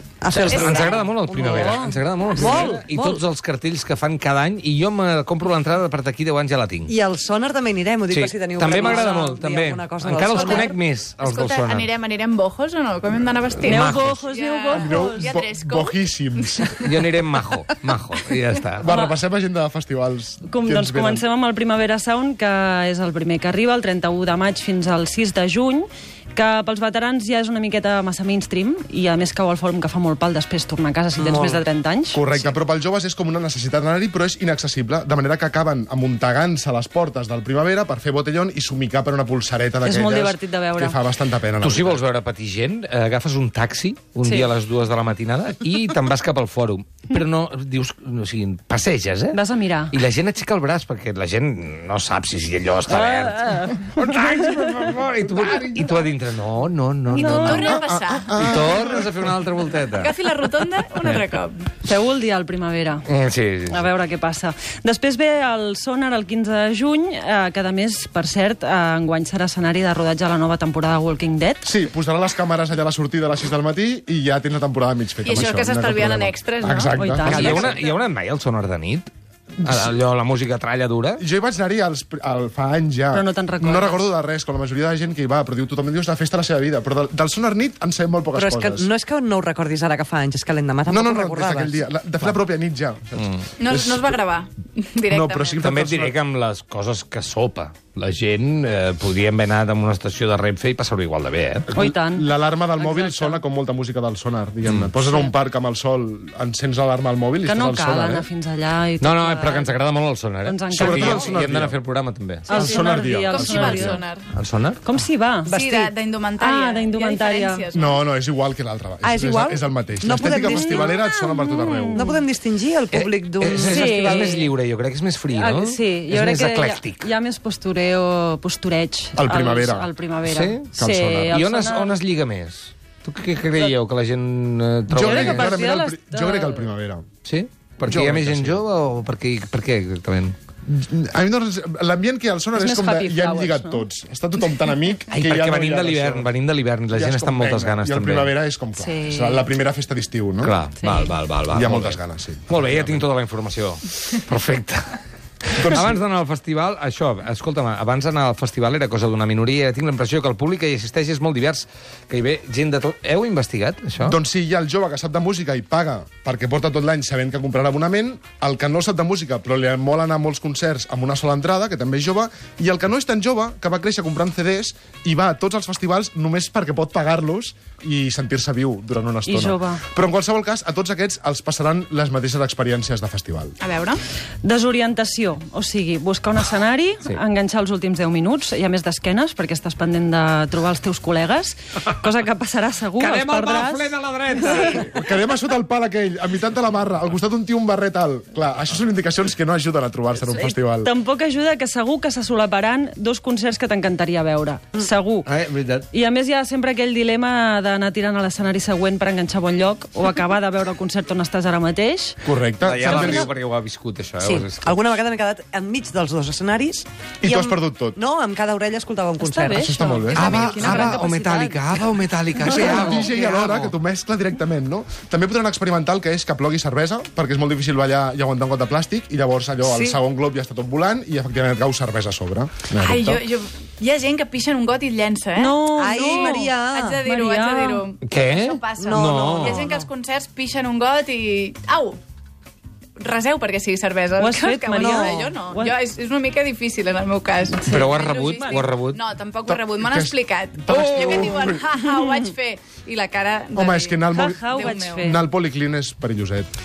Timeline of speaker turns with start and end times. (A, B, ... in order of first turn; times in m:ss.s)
0:00.2-0:03.2 A
0:00.3-0:06.9 B
0:00.5-0:00.9 C
0:01.4-0:02.8 D
0:06.9-0:10.8 A
0:08.1-0:11.9 B
0:10.3-0:10.6 C
0:11.2-0:16.8 C
0:13.6-0:14.2 B
0:13.6-0:15.3 D
0:14.7-0:17.0 E
0:16.8-0:18.9 B
0:18.8-0:21.2 E
0:18.9-0:19.1 D
0:20.4-0:32.4 D
0:31.2-0:31.6 A
0:32.1-0:42.0 E
0:39.8-0:41.0 D
0:41.6-0:49.4 B
0:44.2-0:44.5 D
0:49.3-0:49.9 D
0:49.9-0:57.8 B
0:52.9-0:53.8 D
0:57.1-0:57.8 D
0:57.1-0:59.0 C
0:57.5-0:59.3 E
0:58.4-1:00.2 B
0:59.9-1:01.7 C
1:01.8-1:03.1 D
1:03.0-1:03.9 B
1:03.7-1:11.7 D
1:11.6-1:17.8 E
1:15.2-1:17.6 C
1:17.0-1:17.8 D
1:17.2-1:21.2 B
1:21.2-1:28.9 E
1:23.1-1:24.0 D
1:28.3-1:32.3 A
1:30.9-1:34.2 E
1:33.6-1:35.7 C
1:35.1-1:36.1 E
1:35.6-1:41.7 B
1:41.7-1:48.2 E
1:41.7-1:43.4 D
1:44.6-1:44.9 B
1:47.4-1:49.8 D
1:49.0-1:52.6 B
1:50.4-1:51.3 D
1:50.7-1:51.8 E
1:52.5-1:54.0 D
1:52.5-1:54.0 E
1:52.7-1:54.2 C
1:54.3-1:54.8 B
1:54.8-1:55.6 D
1:55.5-1:58.0 C
1:55.5-1:55.9 A
1:56.4-1:57.6 D
1:57.7-2:02.1 E
1:59.0-2:00.9 A
2:00.2-2:02.2 D
2:01.9-2:04.4 A
2:02.9-2:07.1 B
2:03.6-2:04.5 D
2:05.3-2:12.0 D
2:09.2-2:09.9 E
2:10.2-2:10.7 B
2:10.8-2:11.4 E
2:11.3-2:15.6 B
2:14.9-2:17.1 E
2:15.0-2:16.7 D
2:17.2-2:20.4 B
2:17.8-2:18.6 E
2:20.6-2:26.3 E
2:22.6-2:23.8 D
2:25.1-2:28.3 B
2:26.9-2:30.6 E
2:28.8-2:29.5 D
2:30.4-2:44.2 B
2:30.8-2:31.1 D
2:31.5-2:33.0 E
2:35.6-2:36.0 E
2:44.0-3:03.6 E
2:59.3-2:59.8 D
3:03.6-3:04.0 C
3:04.4-3:14.6 D
3:13.0-3:15.0 B
3:14.6-3:20.9 E
3:20.3-3:25.3 D
3:25.2-3:25.8 B
3:25.9-3:32.2 D
3:32.2-3:33.3 E
3:32.6-3:34.8 B
3:32.9-3:33.3 A
3:34.2-3:39.8 A
3:37.2-3:38.0 E
3:39.2-3:41.8 D
3:39.6-3:41.0 E
3:40.1-3:43.8 B
3:42.4-3:53.2 E
3:49.7-3:49.9 A
3:52.8-4:02.0 C
3:55.4-3:57.8 D
3:55.8-3:57.0 A
3:58.0-3:59.7 B
3:58.8-3:59.9 A
4:03.0-4:15.0 C
4:04.2-4:05.7 D
4:04.7-4:05.4 A
4:07.5-4:08.7 D
4:07.6-4:09.0 B
4:09.5-4:10.2 E
4:10.7-4:11.4 E
4:10.7-4:11.5 B
4:13.5-4:16.5 E
4:14.1-4:15.2 D